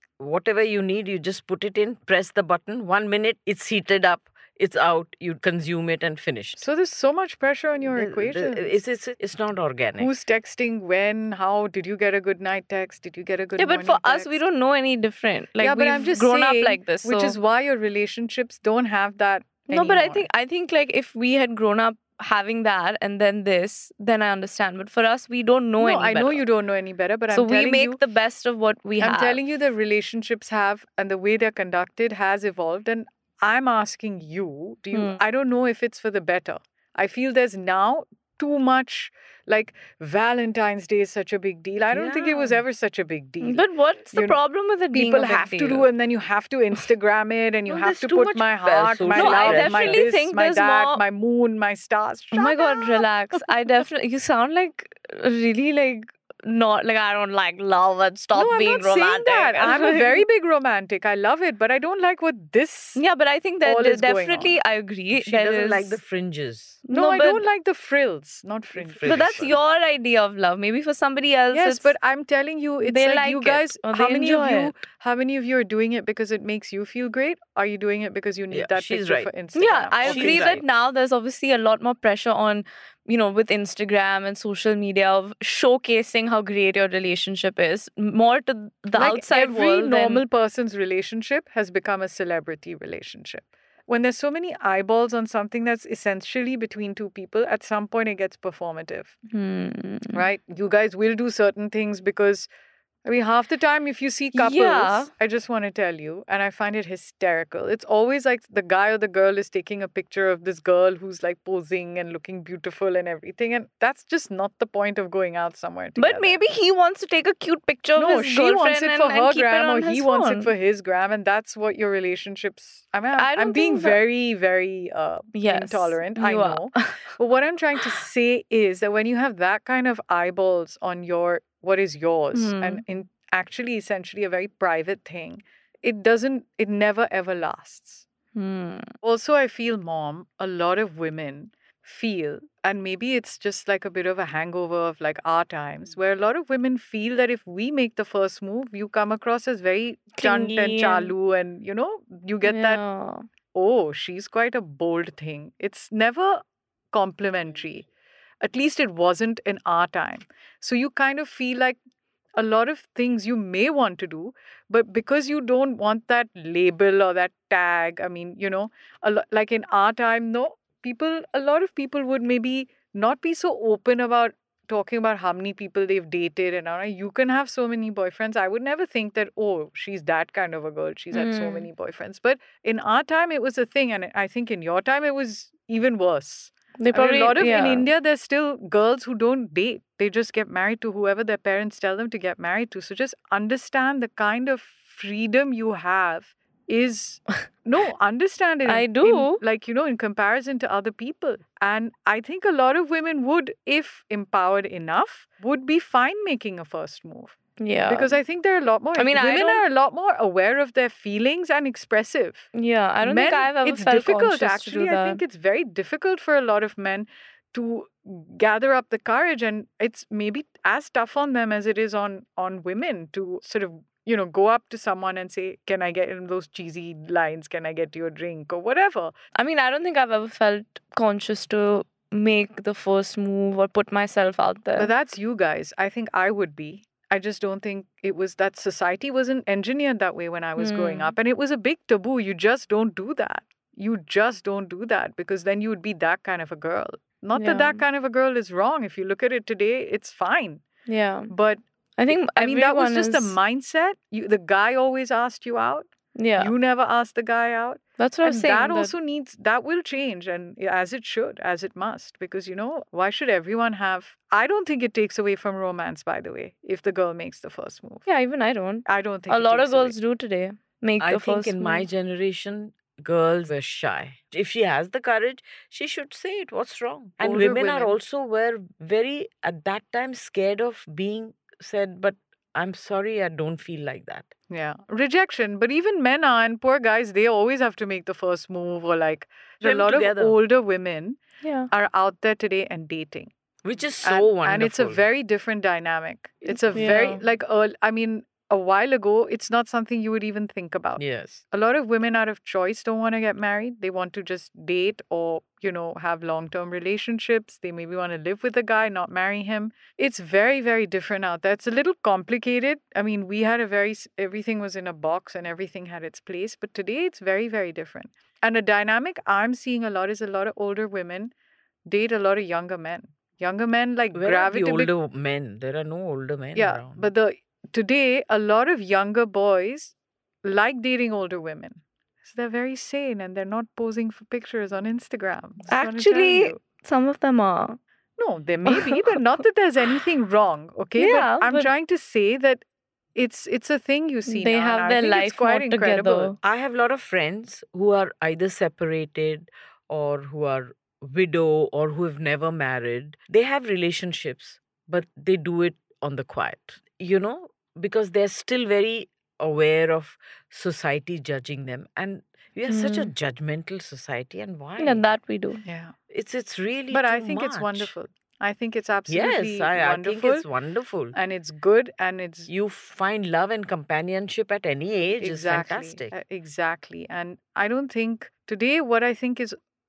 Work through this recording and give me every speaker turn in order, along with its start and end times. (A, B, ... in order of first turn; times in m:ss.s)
0:00.2-0:06.7 A
0:06.6-0:08.8 B
0:07.8-0:10.1 A
0:10.0-0:14.4 B
0:13.6-0:17.4 C
0:15.6-0:20.3 B
0:19.7-0:26.4 C
0:25.8-0:28.0 B
0:27.3-0:29.4 C
0:29.0-0:44.4 B
0:34.9-0:35.2 C
0:41.9-0:42.6 A
0:43.4-0:45.9 C
0:44.9-0:53.0 B
0:47.7-0:50.1 A
0:49.1-0:51.0 C
0:52.3-1:00.2 C
0:58.4-1:03.0 B
1:03.0-1:06.0 C
1:03.6-1:04.6 B
1:05.1-1:06.8 A
1:06.9-1:07.4 C
1:06.9-1:09.4 B
1:08.8-1:09.6 A
1:09.0-1:11.9 C
1:11.5-1:20.6 B
1:12.8-1:14.7 C
1:18.5-1:19.3 A
1:19.5-1:30.2 C
1:20.0-1:20.6 A
1:29.0-1:39.2 B
1:39.3-1:40.2 C
1:40.1-1:42.5 B
1:43.0-1:56.4 B
1:44.3-1:45.1 C
1:56.0-2:00.5 C
1:58.0-2:18.1 B
2:03.2-2:04.0 C
2:05.3-2:07.1 C
2:12.3-2:12.8 C
2:18.4-2:18.9 C
2:19.0-2:32.8 B
2:30.2-2:31.1 C
2:32.5-2:33.3 C
2:33.5-2:37.9 B
2:38.4-2:41.8 B
2:42.4-3:27.4 B
3:01.1-3:01.7 C
3:06.8-3:07.9 C
3:18.6-3:19.4 C
3:27.6-3:28.2 C
3:27.9-3:32.5 B
3:29.0-3:29.6 C
3:32.6-3:35.2 C
3:33.0-3:49.1 B
3:49.4-3:54.9 C
3:54.8-4:10.6 B
4:00.6-4:01.1 C
4:07.4-4:07.8 C
4:10.9-4:11.3 C
4:11.3-4:28.1 B
4:12.0-4:13.4 C
4:16.2-4:16.5 C
4:18.0-4:18.9 C
4:28.1-4:31.9 C
4:28.9-4:30.0 B
4:31.0-4:44.3 A
4:37.2-4:38.0 B
4:44.5-4:51.2 B
4:49.6-4:50.4 A
4:51.4-4:51.7 C
4:51.7-4:53.3 B
4:53.6-4:55.0 A
4:54.0-5:21.3 B
4:56.5-4:57.2 C
5:01.0-5:01.4 A
5:21.9-5:24.9 B
5:24.1-5:27.1 A
5:26.6-5:36.6 B
5:35.7-5:37.8 C
5:38.2-5:42.6 B
5:38.7-5:39.2 C
5:41.0-5:41.7 C
5:43.2-5:46.4 B
5:44.3-5:46.4 C
5:46.4-6:05.0 A
6:02.7-6:03.1 C
6:04.8-6:05.6 C
6:05.6-6:05.9 B
6:06.1-6:07.9 A
6:06.9-6:10.5 B
6:09.1-6:11.2 A
6:11.1-6:12.5 B
6:12.5-6:16.1 A
6:15.2-6:19.6 B